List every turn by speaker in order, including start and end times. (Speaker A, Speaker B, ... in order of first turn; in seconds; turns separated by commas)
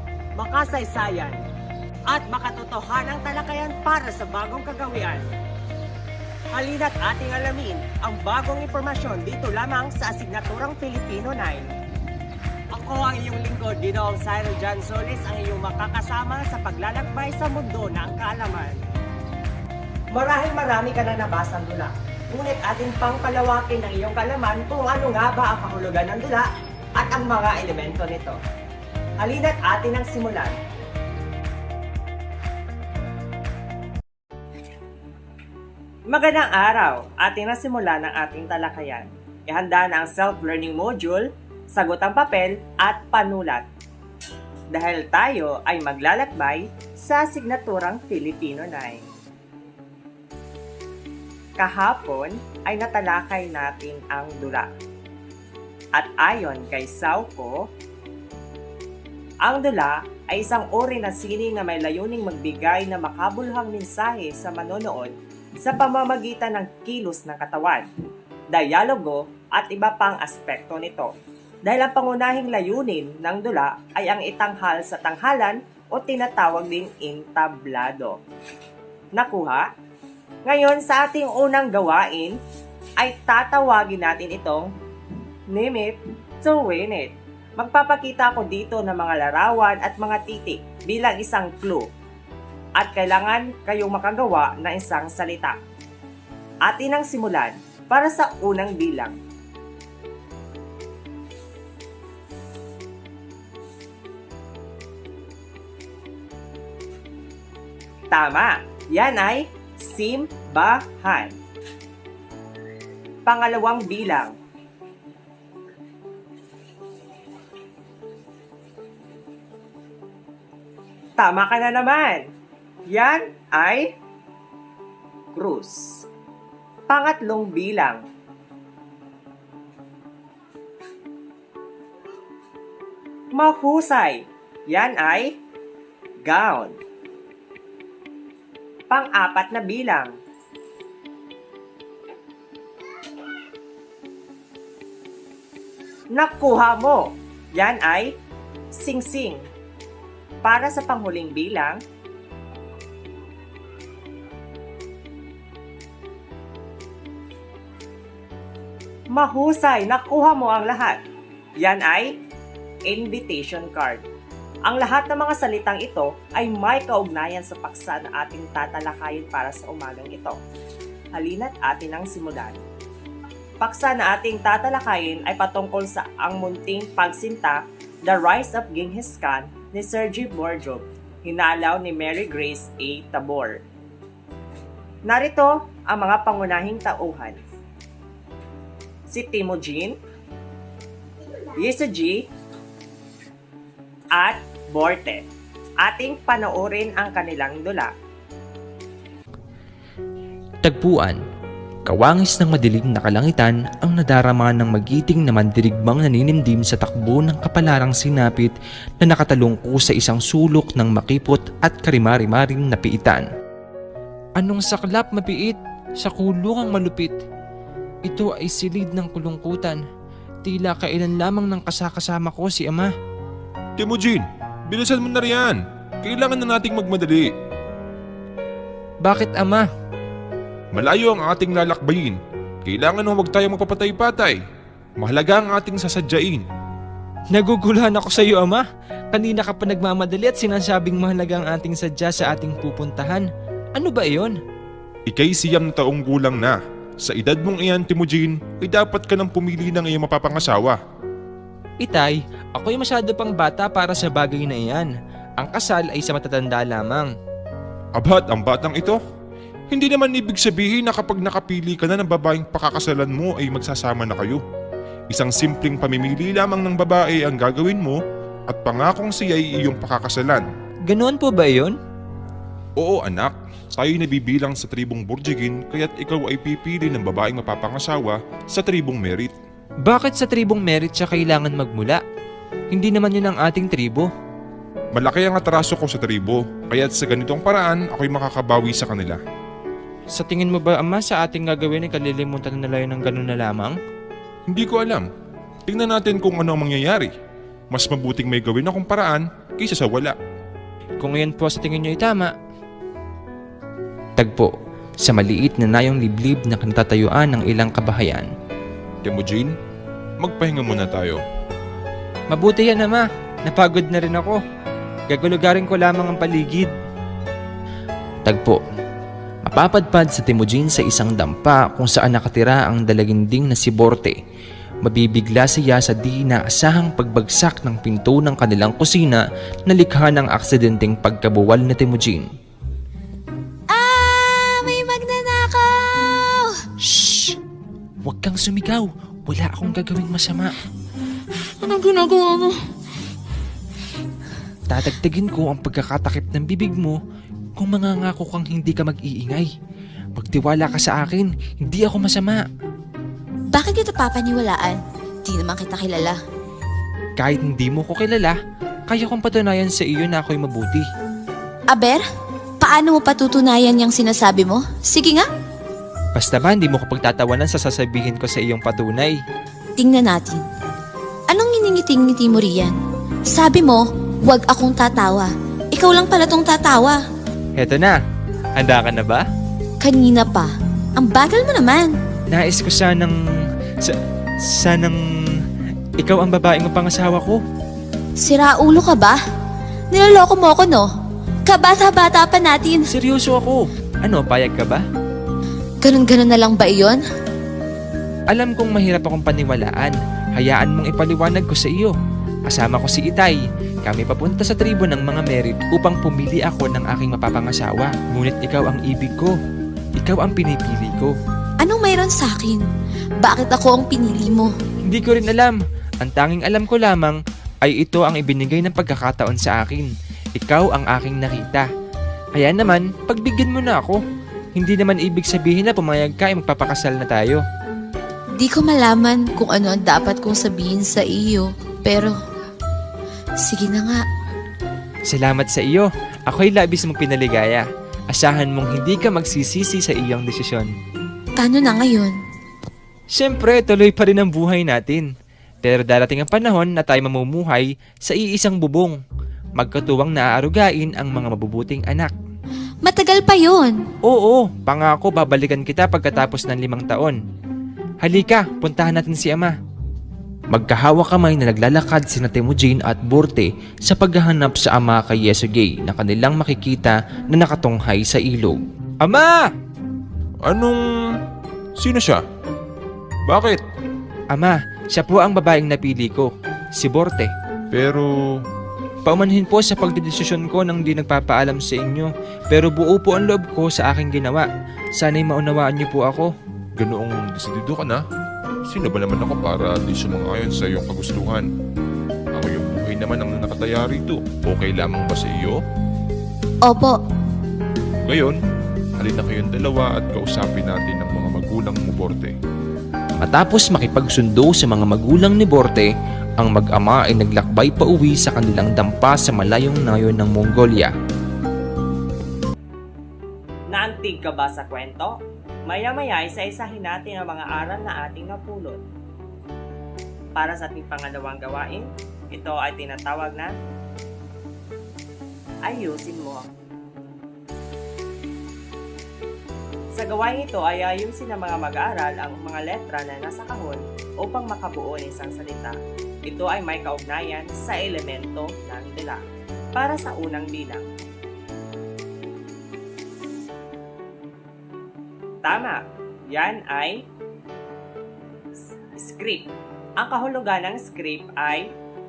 Speaker A: 0.4-1.4, Speaker A: 2.1-5.3, Speaker A: 6.5-11.7, Speaker A: 12.7-18.9, Speaker A: 20.1-28.4, Speaker A: 29.2-30.6, Speaker A: 36.1-43.6, Speaker A: 44.7-49.1, Speaker A: 51.6-54.7, Speaker A: 56.0-57.6, Speaker A: 59.4-67.9, Speaker A: 68.5-71.1, Speaker A: 71.7-78.2, Speaker A: 79.2-79.7, Speaker A: 80.5-82.3, Speaker A: 83.0-84.7, Speaker A: 85.5-91.9, Speaker A: 92.8-95.6, Speaker A: 96.7-99.2, Speaker A: 108.1-111.3, Speaker A: 113.3-114.3, Speaker A: 121.2-122.2, Speaker A: 122.9-123.9, Speaker A: 125.3-126.0, Speaker A: 126.9-128.0, Speaker A: 133.3-135.3, Speaker A: 136.3-136.8, Speaker A: 138.9-140.1, Speaker A: 146.1-148.1, Speaker A: 148.7-149.4, Speaker A: 150.4-151.8, Speaker A: 159.1-161.0, Speaker A: 161.6-162.1, Speaker A: 162.9-164.0, Speaker A: 164.7-170.4, Speaker A: 171.2-172.6, Speaker A: 173.6-183.6, Speaker A: 185.1-187.4, Speaker A: 189.1-189.9, Speaker A: 191.6-192.2, Speaker A: 194.2-195.2, Speaker A: 195.8-197.9, Speaker B: 200.6-201.2, Speaker B: 201.9-213.3, Speaker B: 214.4-217.2, Speaker B: 218.1-219.8, Speaker B: 220.4-222.9, Speaker C: 223.8-227.3, Speaker B: 229.0-229.7, Speaker C: 230.7-234.4, Speaker C: 235.0-236.4, Speaker B: 237.3-244.4, Speaker C: 245.1-250.8, Speaker B: 251.8-257.1, Speaker C: 258.0-259.0, Speaker C: 259.7-264.4, Speaker C: 265.1-270.5, Speaker B: 270.9-271.8, Speaker C: 272.8-279.4, Speaker B: 279.8-282.0, Speaker B: 282.7-284.1, Speaker C: 284.9-289.2, Speaker B: 290.1-293.8, Speaker C: 294.5-295.1, Speaker C: 295.7-297.1, Speaker C: 297.7-300.2, Speaker B: 301.0-302.3, Speaker B: 304.2-308.3, Speaker C: 309.0-309.5, Speaker C: 310.2-311.2, Speaker B: 312.3-314.4, Speaker B: 315.1-316.7, Speaker B: 318.2-318.6, Speaker B: 319.4-324.2, Speaker B: 324.8-332.3, Speaker D: 333.7-336.7, Speaker B: 336.8-337.4, Speaker B: 338.0-340.6, Speaker D: 341.6-342.7, Speaker B: 344.7-347.0, Speaker B: 347.6-349.5, Speaker B: 350.2-352.5, Speaker D: 353.5-356.2, Speaker B: 357.2-360.9, Speaker D: 361.7-362.1, Speaker D: 362.6-365.3, Speaker B: 366.1-369.2, Speaker D: 369.8-370.5, Speaker D: 371.3-372.8, Speaker D: 373.3-377.1, Speaker B: 377.6-378.0, Speaker B: 378.6-379.3, Speaker D: 379.8-382.0, Speaker B: 382.3-383.2, Speaker B: 383.8-385.5, Speaker B: 386.0-387.4, Speaker D: 388.2-389.2, Speaker D: 389.9-390.9, Speaker D: 391.5-392.9, Speaker B: 392.9-394.8, Speaker D: 395.8-397.1, Speaker B: 398.3-402.0, Speaker B: 402.5-409.4, Speaker B: 410.0-411.1, Speaker D: 411.6-412.7, Speaker D: 413.2-414.6, Speaker B: 414.9-421.7, Speaker B: 422.4-424.0, Speaker B: 424.6-427.4, Speaker D: 428.4-432.2, Speaker D: 433.4-434.1, Speaker B: 435.1-440.7, Speaker D: 441.4-442.2, Speaker B: 443.1-445.1, Speaker B: 445.6-449.0, Speaker B: 449.6-452.1, Speaker D: 452.8-453.9, Speaker B: 454.0-457.2, Speaker B: 458.0-459.6, Speaker B: 460.5-469.5, Speaker C: 470.4-470.8, Speaker C: 471.8-472.2, Speaker C: 473.3-473.6, Speaker B: 474.3-477.3, Speaker C: 477.7-478.1, Speaker B: 479.1-486.3, Speaker C: 486.8-488.0, Speaker C: 488.7-491.5, Speaker C: 492.3-495.6, Speaker D: 496.6-497.0, Speaker C: 498.0-498.4, Speaker C: 499.0-502.4, Speaker B: 503.2-510.9, Speaker A: 513.7-518.8, Speaker A: 520.4-523.5, Speaker A: 525.7-526.5, Speaker A: 529.9-539.2, Speaker A: 539.8-540.9, Speaker A: 545.5-547.0, Speaker A: 549.0-549.5, Speaker A: 550.0-551.7